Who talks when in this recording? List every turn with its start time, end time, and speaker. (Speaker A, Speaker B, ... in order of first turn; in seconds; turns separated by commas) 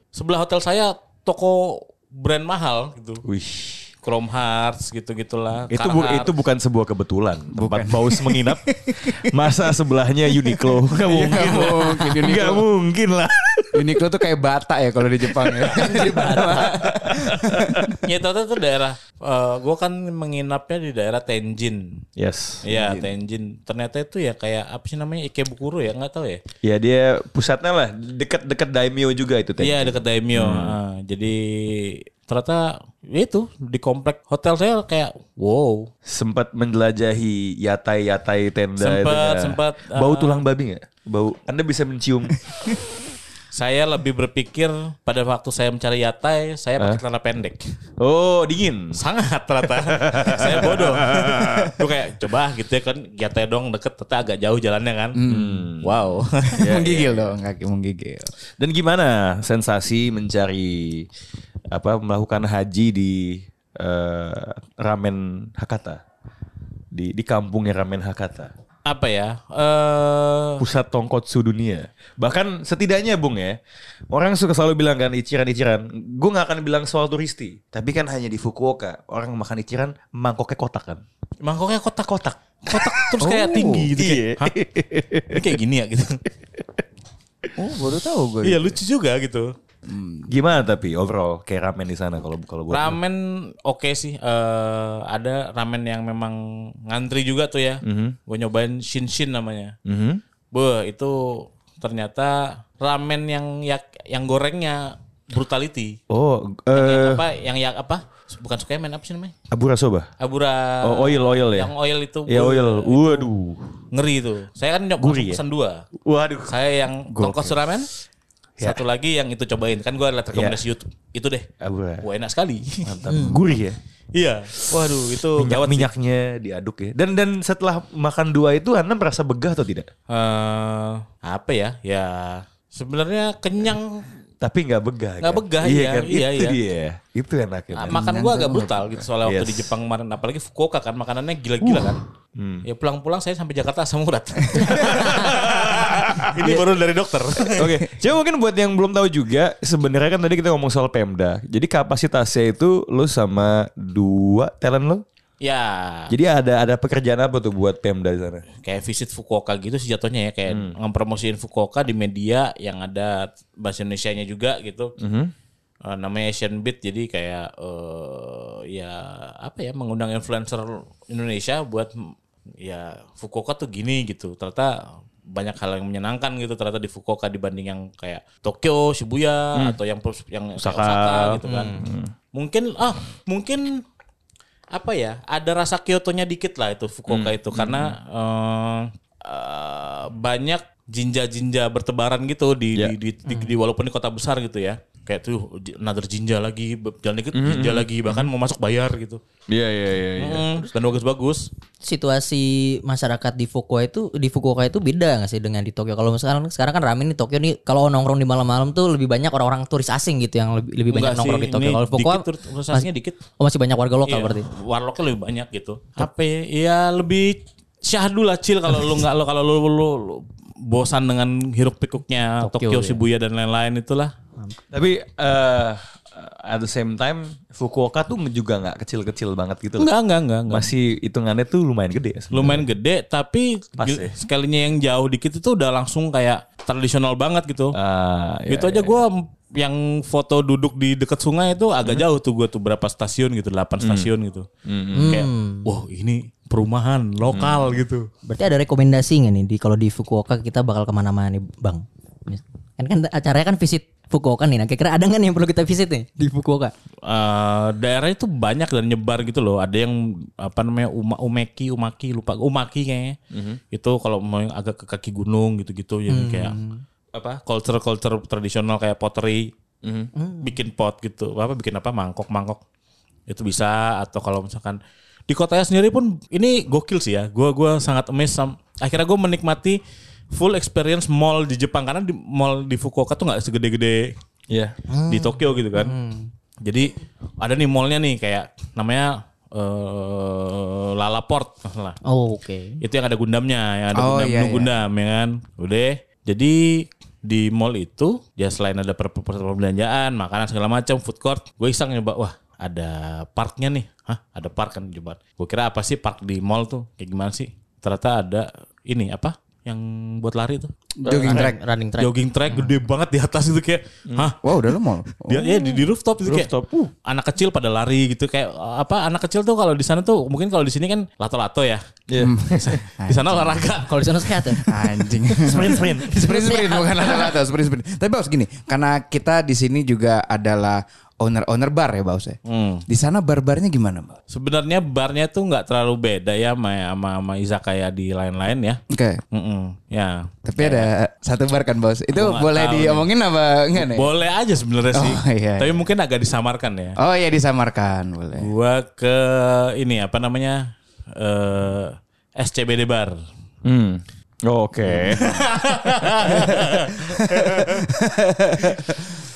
Speaker A: 0.1-3.2, Speaker B: 3.2-3.9, Speaker A: 4.0-6.3, Speaker B: 5.7-14.0, Speaker C: 7.5-9.5, Speaker C: 10.3-12.6, Speaker A: 11.1-12.0, Speaker C: 13.7-18.0, Speaker B: 15.3-18.0, Speaker D: 15.7-16.8, Speaker A: 18.0-22.0, Speaker B: 22.1-22.6, Speaker A: 22.6-26.4, Speaker C: 22.7-23.1, Speaker B: 26.6-30.8, Speaker A: 29.6-35.9, Speaker B: 36.0-42.4, Speaker A: 38.8-40.4, Speaker A: 43.5-47.7, Speaker B: 48.0-49.0, Speaker A: 48.9-55.2, Speaker B: 49.6-51.9, Speaker C: 51.1-51.7, Speaker C: 55.1-55.7, Speaker B: 55.2-56.0, Speaker A: 55.8-56.7, Speaker C: 56.5-58.3, Speaker B: 56.6-57.3, Speaker B: 58.6-61.1, Speaker B: 61.7-66.0, Speaker B: 66.9-68.5, Speaker A: 68.9-70.6, Speaker B: 70.6-73.6, Speaker B: 74.1-81.0, Speaker A: 81.4-84.5, Speaker B: 82.7-85.5, Speaker C: 83.2-83.9, Speaker A: 85.3-86.2, Speaker C: 87.5-88.8, Speaker A: 88.4-89.5, Speaker C: 89.9-90.3, Speaker B: 90.3-93.0, Speaker A: 92.7-99.7, Speaker B: 97.8-98.2, Speaker B: 99.8-100.2, Speaker A: 100.5-106.0, Speaker B: 106.1-107.2, Speaker A: 106.7-109.3, Speaker B: 109.5-110.1, Speaker A: 110.2-113.3, Speaker B: 110.8-111.7, Speaker B: 112.3-113.7, Speaker A: 113.9-115.8, Speaker B: 115.0-115.4, Speaker B: 116.0-116.5, Speaker A: 116.5-117.9, Speaker B: 117.1-117.5, Speaker A: 118.6-121.5, Speaker B: 120.3-120.6, Speaker B: 121.6-122.0, Speaker A: 122.0-123.0, Speaker B: 122.8-123.8, Speaker D: 123.1-123.4, Speaker A: 124.1-125.9, Speaker B: 124.8-129.9, Speaker A: 130.1-134.1, Speaker B: 134.4-138.0, Speaker A: 135.2-136.6, Speaker A: 137.7-142.0, Speaker C: 137.9-139.1, Speaker B: 139.2-139.7, Speaker B: 141.6-142.6, Speaker A: 142.6-147.7, Speaker B: 144.5-146.7, Speaker B: 147.4-155.0, Speaker A: 155.4-156.1, Speaker B: 156.1-158.4, Speaker A: 158.6-164.9, Speaker B: 160.5-160.7, Speaker B: 165.0-165.3, Speaker A: 165.8-171.9, Speaker A: 172.6-174.8, Speaker A: 175.3-183.8, Speaker B: 180.6-182.1, Speaker A: 184.7-199.2, Speaker B: 187.1-187.9, Speaker B: 197.3-198.3, Speaker B: 199.5-200.7, Speaker A: 200.2-201.5, Speaker D: 201.8-212.9, Speaker A: 210.9-213.2, Speaker D: 213.4-214.4, Speaker A: 214.1-224.1, Speaker D: 222.4-223.0, Speaker B: 224.7-229.9, Speaker A: 229.8-230.7, Speaker B: 230.5-232.6, Speaker A: 232.3-237.8, Speaker B: 233.8-234.1, Speaker B: 237.7-238.9, Speaker A: 238.5-244.5, Speaker B: 243.8-244.1, Speaker B: 244.6-245.2, Speaker D: 244.9-245.7, Speaker A: 245.0-248.1, Speaker B: 247.3-247.7, Speaker D: 248.2-256.7, Speaker A: 257.1-263.2, Speaker B: 263.3-263.6, Speaker A: 263.7-266.6, Speaker D: 266.1-266.8, Speaker A: 267.2-269.5, Speaker B: 269.8-270.1, Speaker D: 270.1-270.5, Speaker A: 270.4-272.6, Speaker A: 273.3-279.8, Speaker A: 280.3-284.1, Speaker B: 284.5-284.8, Speaker D: 284.9-286.3, Speaker A: 285.1-285.9, Speaker A: 286.6-292.0, Speaker D: 292.0-292.8, Speaker A: 292.8-310.7, Speaker C: 293.9-294.7, Speaker C: 311.0-311.6, Speaker B: 311.0-311.4, Speaker D: 311.1-312.7, Speaker A: 311.2-314.4, Speaker B: 314.1-314.3, Speaker C: 314.4-315.6, Speaker A: 315.2-316.5, Speaker B: 316.2-316.9, Speaker A: 317.0-321.8, Speaker B: 322.1-322.8, Speaker C: 322.2-323.6, Speaker A: 322.5-324.7, Speaker D: 323.9-324.8, Speaker C: 324.6-334.1, Speaker B: 325.4-326.3, Speaker D: 326.2-327.3, Speaker A: 332.4-332.8, Speaker A: 334.3-338.8, Speaker C: 338.9-339.2, Speaker A: 339.3-340.9, Speaker C: 340.4-344.1, Speaker A: 342.1-343.1, Speaker A: 343.7-347.0, Speaker C: 344.9-345.9, Speaker C: 347.0-348.5, Speaker A: 348.4-353.2, Speaker B: 353.6-355.4, Speaker C: 354.9-355.4, Speaker A: 355.1-357.8, Speaker C: 357.2-359.1